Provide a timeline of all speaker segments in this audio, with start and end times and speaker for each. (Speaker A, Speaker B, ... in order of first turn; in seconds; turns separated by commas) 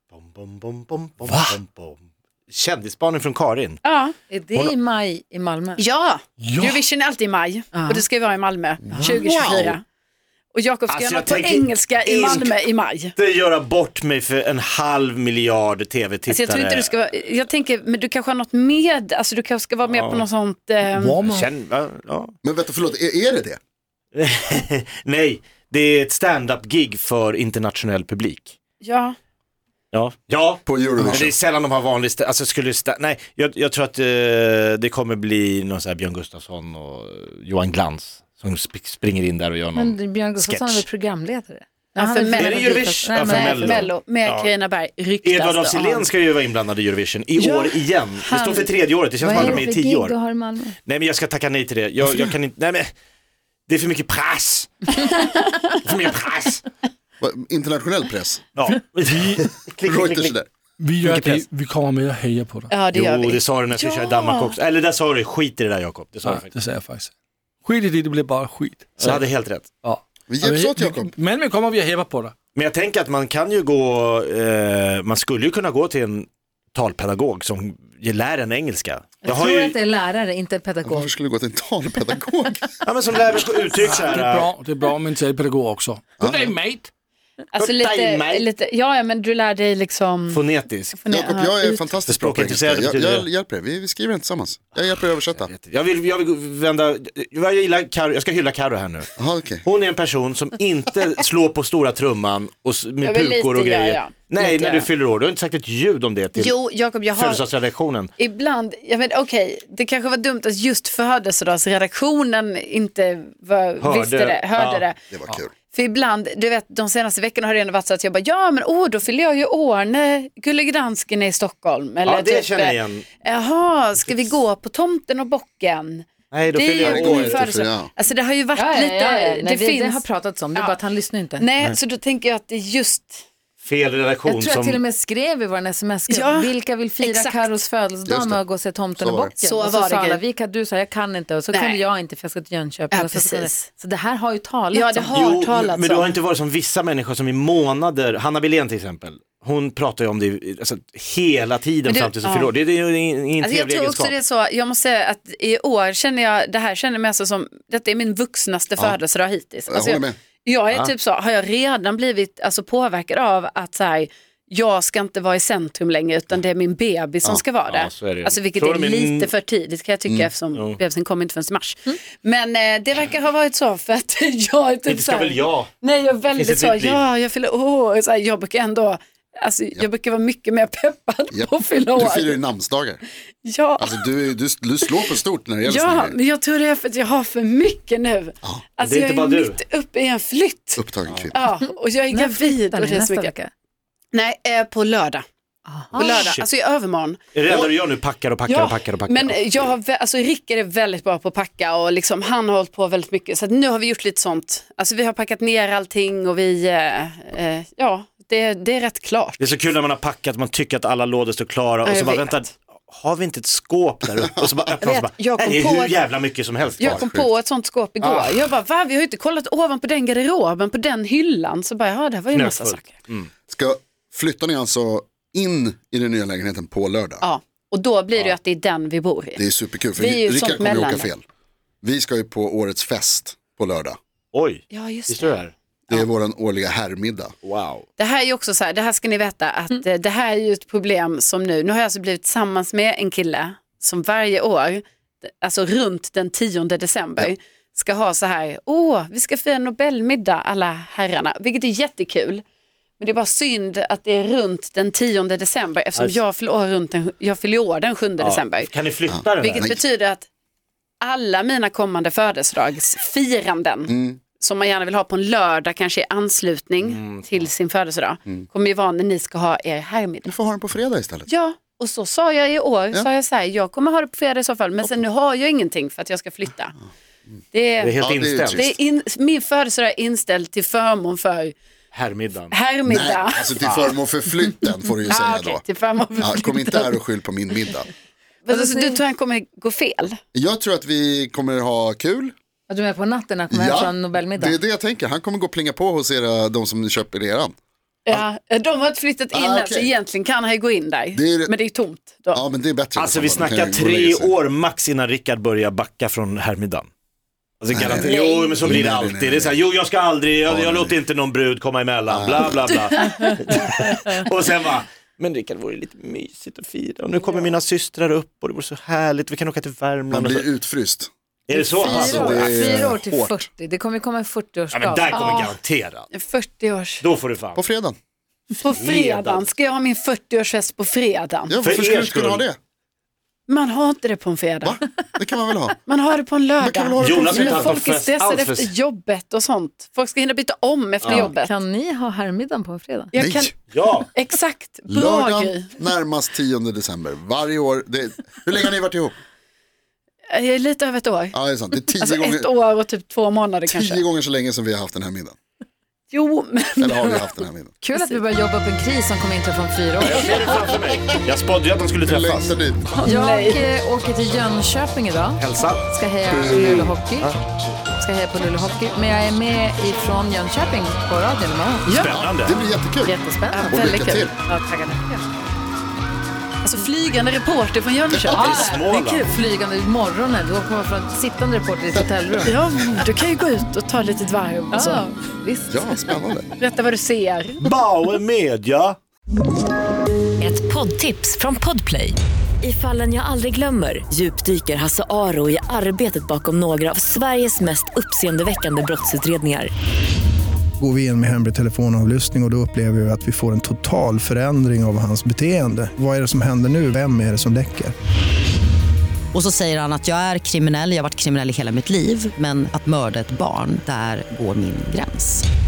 Speaker A: 0.1-3.8, Speaker B: 1.2-1.6, Speaker C: 3.8-4.2, Speaker D: 4.3-5.8, Speaker C: 5.8-9.8, Speaker B: 6.4-6.8, Speaker D: 7.7-8.0, Speaker E: 8.9-9.5, Speaker A: 9.2-9.7, Speaker C: 10.5-13.1, Speaker A: 10.9-12.6, Speaker A: 13.2-16.9, Speaker C: 16.3-21.2, Speaker A: 19.8-20.3, Speaker B: 20.9-21.5, Speaker A: 21.2-22.3, Speaker E: 22.4-23.6, Speaker A: 24.1-28.6, Speaker C: 28.8-29.1, Speaker A: 29.9-40.9, Speaker E: 30.7-31.3, Speaker D: 39.7-43.9, Speaker C: 42.0-46.1, Speaker A: 42.4-44.5, Speaker A: 45.2-50.1, Speaker C: 47.4-49.6, Speaker D: 49.2-50.8, Speaker A: 50.9-52.9, Speaker E: 52.0-52.3, Speaker A: 53.7-55.0, Speaker A: 55.8-56.6, Speaker E: 57.2-58.4, Speaker A: 58.5-60.4, Speaker B: 59.1-59.5, Speaker E: 59.8-60.5, Speaker B: 60.8-62.7, Speaker A: 61.0-61.5, Speaker C: 62.7-64.5, Speaker A: 62.9-66.5, Speaker B: 66.2-67.1, Speaker B: 67.6-69.2, Speaker A: 69.0-69.7, Speaker B: 69.8-72.3, Speaker E: 70.3-71.1, Speaker A: 72.5-79.8, Speaker D: 79.2-81.1, Speaker E: 80.8-82.7, Speaker A: 82.8-84.5, Speaker B: 83.8-86.9, Speaker E: 86.2-86.5, Speaker C: 87.5-90.4, Speaker A: 87.6-88.5, Speaker A: 90.3-91.0, Speaker C: 91.0-91.9, Speaker E: 91.1-95.5, Speaker A: 92.1-93.3, Speaker A: 95.3-99.1, Speaker E: 99.2-99.6, Speaker A: 99.6-108.1, Speaker C: 103.0-104.9, Speaker C: 106.4-107.4, Speaker C: 108.2-115.0, Speaker A: 113.8-114.8, Speaker E: 115.1-115.5, Speaker C: 115.7-130.0, Speaker A: 122.0-123.1, Speaker A: 126.3-127.5, Speaker E: 126.8-127.9, Speaker D: 128.6-131.5, Speaker C: 131.4-133.2, Speaker A: 133.6-134.8, Speaker D: 134.2-145.2, Speaker C: 136.1-137.5, Speaker E: 138.1-138.4, Speaker E: 139.0-139.3, Speaker C: 139.4-140.2, Speaker C: 141.5-141.8, Speaker C: 142.9-143.7, Speaker C: 144.7-146.2, Speaker A: 145.1-154.2, Speaker C: 151.9-152.5, Speaker C: 153.4-182.4, Speaker E: 159.7-160.2, Speaker A: 167.7-169.3, Speaker A: 170.5-170.8, Speaker A: 174.9-175.7, Speaker A: 176.3-177.1, Speaker E: 181.3-183.0, Speaker C: 183.4-184.1, Speaker E: 183.8-186.2, Speaker C: 185.7-193.3, Speaker A: 188.8-189.6, Speaker E: 190.8-191.4, Speaker D: 192.1-193.5, Speaker C: 194.1-195.2, Speaker D: 195.7-196.1, Speaker A: 195.9-196.5, Speaker C: 196.0-197.7, Speaker A: 197.3-199.4, Speaker C: 198.5-209.5, Speaker A: 209.4-217.1, Speaker C: 211.8-212.5, Speaker C: 214.8-216.0, Speaker E: 216.8-217.3, Speaker C: 216.8-222.9, Speaker A: 218.0-218.5, Speaker A: 222.3-223.3, Speaker E: 223.5-227.3, Speaker C: 227.2-229.4, Speaker E: 229.4-231.2, Speaker C: 230.0-231.1, Speaker E: 231.8-234.0, Speaker A: 234.3-235.5, Speaker C: 234.7-235.4, Speaker E: 235.9-237.3, Speaker A: 237.4-237.9, Speaker C: 238.0-252.4, Speaker C: 253.0-258.7, Speaker A: 258.2-259.8, Speaker E: 259.1-259.8, Speaker C: 259.4-260.3, Speaker C: 261.0-270.3, Speaker E: 263.9-264.2, Speaker A: 266.8-267.5, Speaker E: 270.3-271.3, Speaker C: 271.3-276.8, Speaker C: 277.5-277.9, Speaker A: 277.8-278.7, Speaker E: 278.0-278.7, Speaker C: 278.5-281.6, Speaker A: 281.9-282.5, Speaker C: 282.5-283.5, Speaker E: 282.9-285.6, Speaker A: 283.6-283.9, Speaker C: 285.1-286.9, Speaker E: 286.2-287.9, Speaker C: 288.4-290.2, Speaker D: 288.5-289.0, Speaker E: 290.3-292.3, Speaker D: 292.7-294.6, Speaker E: 293.5-297.5, Speaker C: 298.1-302.4, Speaker E: 299.3-299.9, Speaker E: 301.1-301.5, Speaker E: 302.3-304.3, Speaker A: 303.0-306.9, Speaker A: 307.6-320.5, Speaker E: 307.7-309.6, Speaker C: 308.0-308.6, Speaker E: 310.5-311.0, Speaker E: 312.1-312.8, Speaker E: 320.1-321.1, Speaker A: 321.5-322.6, Speaker D: 321.5-325.2, Speaker E: 321.8-323.5, Speaker A: 324.7-326.1, Speaker C: 325.1-325.5, Speaker C: 326.1-327.0, Speaker A: 327.0-327.6, Speaker E: 327.6-328.0, Speaker A: 328.5-329.5, Speaker C: 328.6-331.6, Speaker E: 331.5-332.6, Speaker A: 331.6-332.5, Speaker C: 333.5-334.8, Speaker E: 334.6-335.8, Speaker C: 335.9-341.5, Speaker E: 336.6-337.8, Speaker A: 337.0-338.7, Speaker A: 341.0-341.3, Speaker D: 341.1-343.1, Speaker C: 343.1-343.5, Speaker E: 343.2-343.5, Speaker A: 343.7-344.1, Speaker C: 344.1-345.7, Speaker E: 344.9-349.1, Speaker C: 350.3-351.4, Speaker E: 351.3-352.5, Speaker C: 352.0-354.0, Speaker E: 353.7-355.4, Speaker C: 356.1-357.2, Speaker E: 356.8-357.7, Speaker D: 357.8-360.5, Speaker C: 357.9-358.2, Speaker A: 360.0-362.6, Speaker E: 362.0-362.8, Speaker D: 362.9-367.4, Speaker C: 363.0-363.7, Speaker A: 365.4-365.9, Speaker E: 366.3-366.9, Speaker A: 366.9-367.4, Speaker D: 368.0-371.9, Speaker C: 371.9-372.2, Speaker A: 371.9-372.6, Speaker E: 372.1-373.1, Speaker D: 373.0-373.9, Speaker C: 373.5-375.4, Speaker E: 373.7-374.3, Speaker C: 376.6-378.7, Speaker A: 378.3-379.3, Speaker D: 378.3-382.6, Speaker C: 382.5-385.1, Speaker D: 384.7-385.9, Speaker E: 385.7-386.5, Speaker C: 386.6-387.7, Speaker A: 387.6-389.0, Speaker F: 390.4-399.7, Speaker G: 400.8-407.9, Speaker H: 409.4-415.4